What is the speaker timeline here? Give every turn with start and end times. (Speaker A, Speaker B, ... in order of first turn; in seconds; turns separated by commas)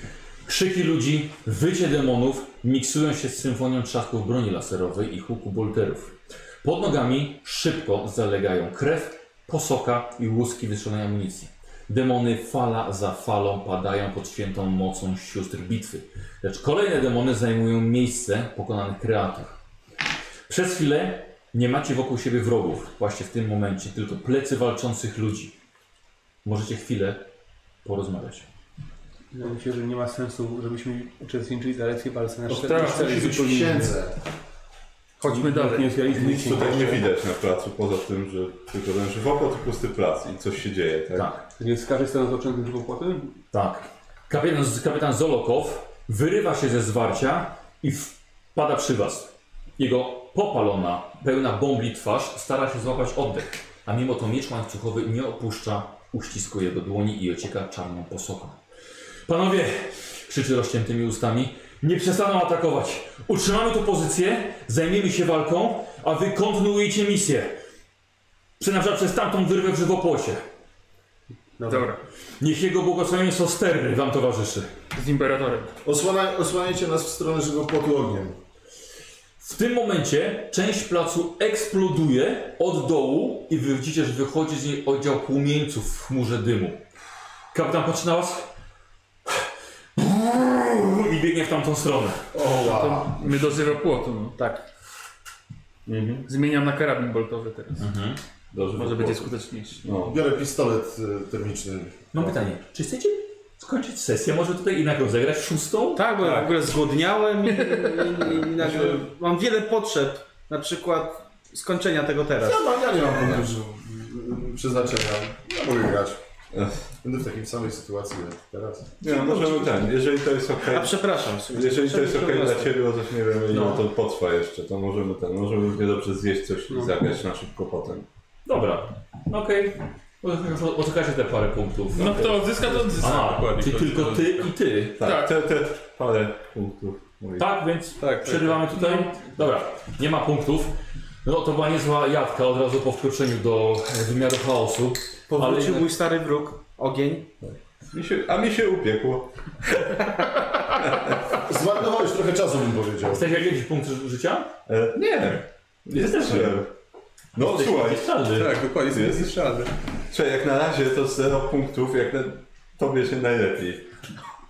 Speaker A: 0.5-19.6, Speaker A: 20.5-25.6, Speaker A: 26.4-27.3, Speaker A: 27.8-28.5, Speaker B: 29.3-34.0, Speaker C: 32.5-34.2, Speaker D: 32.6-33.6, Speaker D: 35.2-36.4, Speaker B: 35.2-37.0, Speaker E: 36.1-41.4, Speaker A: 41.1-41.4, Speaker B: 41.6-43.4, Speaker A: 43.5-58.6, Speaker A: 59.3-67.6, Speaker A: 68.6-70.5, Speaker B: 71.6-72.0, Speaker D: 71.7-72.0, Speaker A: 72.4-74.7, Speaker D: 75.0-75.7, Speaker C: 75.8-78.4, Speaker A: 79.4-86.8, Speaker A: 87.5-88.5, Speaker A: 90.0-92.3, Speaker C: 92.3-93.4, Speaker D: 92.4-94.4, Speaker F: 94.4-94.6, Speaker E: 95.9-96.3, Speaker D: 96.3-97.9, Speaker A: 97.8-98.2, Speaker E: 98.5-100.2, Speaker D: 98.7-99.8, Speaker C: 100.0-102.4, Speaker A: 102.1-106.1, Speaker F: 105.9-112.6, Speaker D: 107.5-108.2, Speaker E: 108.6-109.0, Speaker C: 112.4-116.2, Speaker E: 116.5-116.8, Speaker C: 117.0-118.9, Speaker E: 119.0-128.1, Speaker F: 120.7-122.9, Speaker F: 123.5-123.8, Speaker B: 126.7-127.0, Speaker A: 128.5-132.4, Speaker D: 131.9-133.4, Speaker B: 132.5-134.5, Speaker A: 133.0-135.1, Speaker E: 135.0-137.5, Speaker D: 135.0-135.3, Speaker A: 137.4-145.9, Speaker B: 138.0-138.7, Speaker D: 138.7-139.1, Speaker F: 145.3-147.3, Speaker E: 147.4-149.8, Speaker C: 151.3-153.2, Speaker A: 153.0-154.5, Speaker E: 154.7-156.7, Speaker A: 155.9-156.7, Speaker E: 157.3-158.2, Speaker A: 157.4-158.7, Speaker B: 158.3-159.7, Speaker E: 158.9-159.5, Speaker E: 160.1-163.9